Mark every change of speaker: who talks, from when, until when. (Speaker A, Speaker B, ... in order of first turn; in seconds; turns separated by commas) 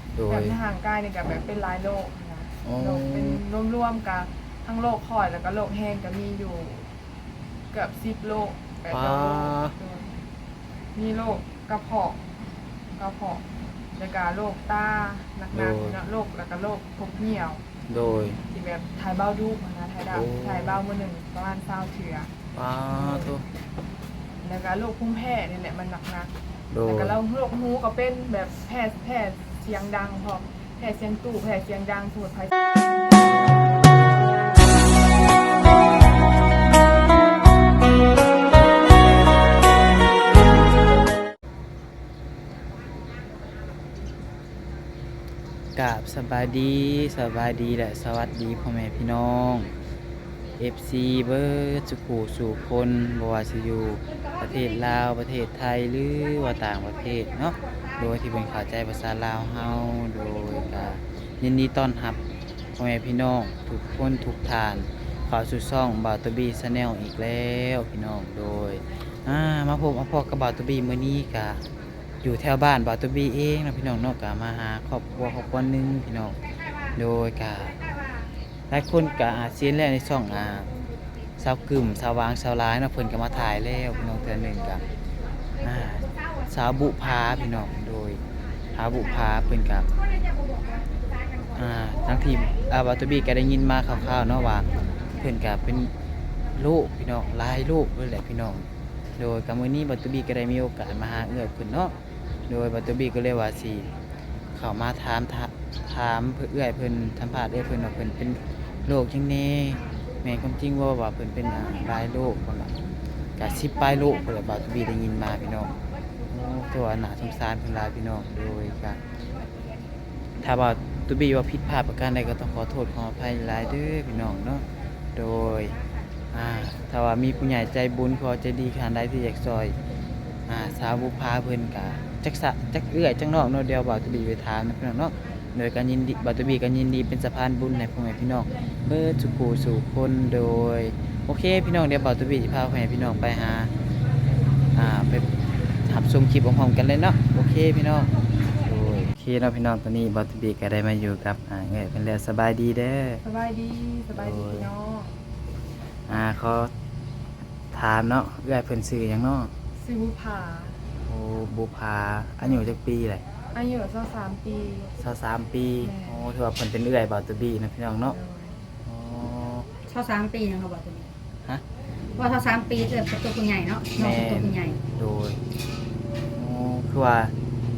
Speaker A: 0.2-0.6, Speaker B: 0.3-6.9, Speaker A: 2.6-3.4, Speaker B: 7.7-10.2, Speaker A: 8.9-9.7, Speaker B: 10.9-12.2, Speaker B: 13.0-13.4, Speaker B: 13.9-17.6, Speaker A: 15.5-16.0, Speaker A: 17.9-18.4, Speaker B: 18.5-22.3, Speaker A: 20.1-20.8, Speaker A: 22.5-23.4, Speaker B: 22.9-23.4, Speaker B: 24.4-26.3, Speaker A: 26.7-27.2, Speaker B: 26.8-32.5, Speaker A: 45.8-49.7, Speaker A: 50.6-62.2, Speaker A: 62.8-71.7, Speaker A: 72.2-76.4, Speaker A: 77.0-77.8, Speaker A: 78.7-80.7, Speaker A: 81.4-84.8, Speaker A: 85.6-88.2, Speaker A: 88.7-89.9, Speaker A: 91.5-95.9, Speaker A: 96.5-98.7, Speaker A: 99.2-102.0, Speaker A: 102.5-103.9, Speaker A: 104.5-115.7, Speaker A: 116.3-119.0, Speaker A: 120.4-125.8, Speaker A: 126.3-129.8, Speaker A: 130.5-143.7, Speaker A: 144.7-145.3, Speaker A: 145.8-153.2, Speaker B: 153.2-155.2, Speaker A: 154.2-154.7, Speaker A: 156.1-156.7, Speaker A: 157.7-159.5, Speaker B: 159.8-160.8, Speaker A: 161.1-163.2, Speaker B: 162.4-162.7, Speaker B: 163.5-165.0, Speaker A: 165.0-168.2, Speaker B: 165.8-166.3, Speaker B: 168.0-168.7, Speaker A: 168.8-169.7, Speaker C: 169.9-171.1, Speaker C: 172.2-174.8, Speaker A: 173.9-175.4, Speaker A: 176.3-177.3